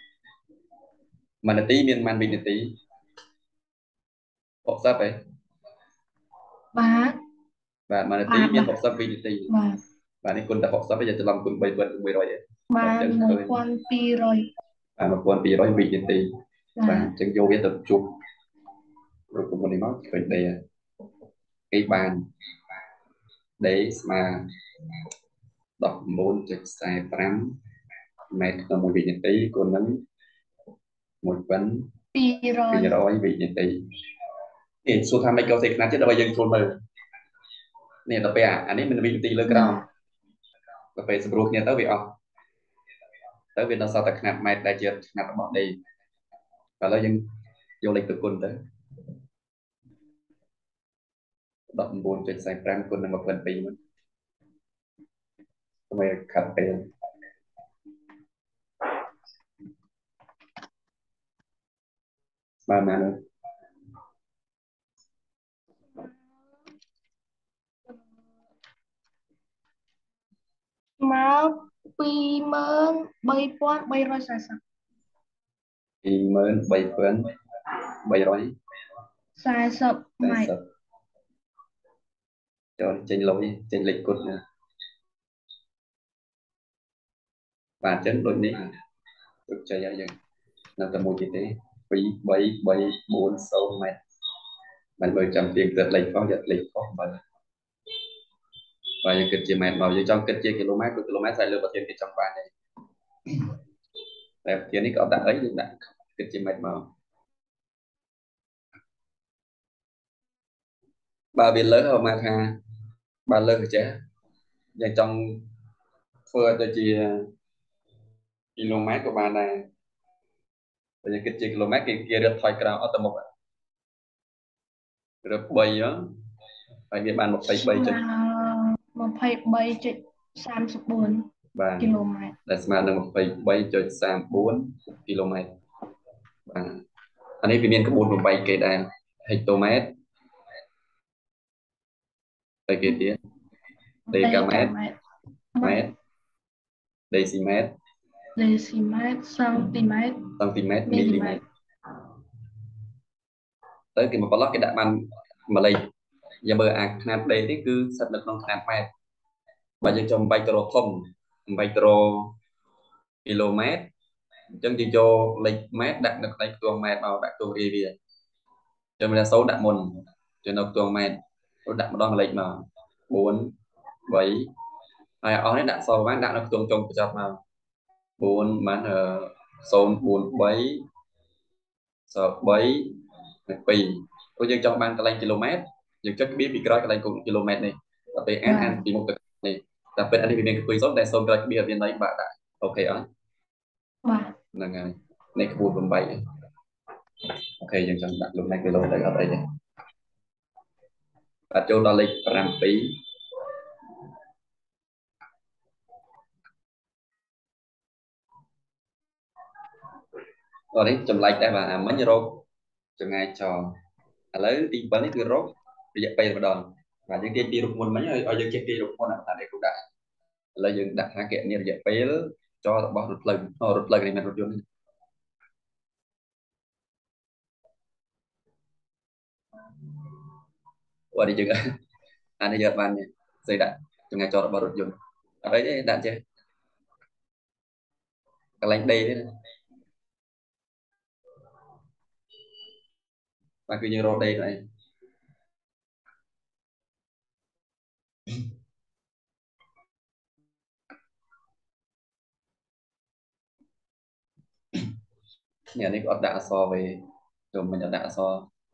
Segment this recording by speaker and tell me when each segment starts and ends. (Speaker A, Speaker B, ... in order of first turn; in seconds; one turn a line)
Speaker A: 1.4-2.7
Speaker A: 4.7-5.2
Speaker B: 6.8-7.2
Speaker A: 7.9-9.5
Speaker B: 8.3-8.7
Speaker B: 9.5-9.8
Speaker A: 10.2-13.6
Speaker B: 12.7-14.5
Speaker A: 15.0-16.3
Speaker B: 16.8-17.1
Speaker A: 16.9-18.1
Speaker A: 19.3-20.6
Speaker A: 21.7-22.2
Speaker A: 23.6-24.4
Speaker A: 25.8-27.6
Speaker A: 28.3-30.0
Speaker A: 31.2-31.9
Speaker B: 32.1-33.0
Speaker A: 32.7-33.8
Speaker A: 34.9-36.7
Speaker A: 38.1-39.8
Speaker B: 39.5-39.9
Speaker A: 41.0-42.2
Speaker A: 43.5-45.8
Speaker A: 46.8-47.2
Speaker A: 47.8-48.6
Speaker A: 51.8-53.8
Speaker A: 55.9-56.9
Speaker A: 62.7-63.2
Speaker B: 65.9-66.4
Speaker B: 71.0-74.6
Speaker A: 76.0-77.2
Speaker A: 78.1-78.5
Speaker B: 79.4-80.5
Speaker A: 80.2-80.6
Speaker A: 82.8-84.4
Speaker A: 87.8-88.7
Speaker A: 89.5-90.2
Speaker A: 90.8-94.0
Speaker A: 95.0-97.2
Speaker A: 99.0-102.5
Speaker A: 104.5-106.9
Speaker A: 111.3-112.5
Speaker A: 113.3-113.9
Speaker A: 114.8-115.5
Speaker A: 116.3-117.2
Speaker A: 118.6-119.6
Speaker A: 121.0-123.2
Speaker A: 125.2-126.0
Speaker A: 126.9-128.0
Speaker B: 127.5-131.3
Speaker A: 131.6-131.9
Speaker B: 131.8-132.3
Speaker A: 132.5-135.5
Speaker A: 136.5-136.8
Speaker A: 137.4-139.9
Speaker A: 142.7-143.2
Speaker B: 144.1-145.0
Speaker A: 144.1-144.8
Speaker B: 145.6-145.9
Speaker A: 145.6-145.9
Speaker A: 147.1-147.7
Speaker B: 148.4-150.2
Speaker A: 150.4-151.4
Speaker B: 150.9-151.4
Speaker A: 153.9-155.9
Speaker A: 156.4-158.9
Speaker A: 159.8-162.3
Speaker A: 163.2-163.9
Speaker A: 164.6-167.9
Speaker A: 169.0-169.9
Speaker A: 170.4-173.5
Speaker A: 174.1-174.5
Speaker A: 175.2-177.4
Speaker A: 178.2-180.8
Speaker A: 182.1-182.9
Speaker A: 183.5-193.1
Speaker B: 188.5-188.8
Speaker B: 194.1-194.3
Speaker A: 194.6-196.2
Speaker A: 197.6-199.4
Speaker A: 201.5-203.0
Speaker A: 210.7-212.4
Speaker A: 213.0-213.7
Speaker A: 214.3-219.8
Speaker A: 220.6-224.6
Speaker A: 231.1-231.6
Speaker A: 232.4-236.2
Speaker A: 238.6-239.2
Speaker A: 243.7-244.6
Speaker A: 255.8-258.5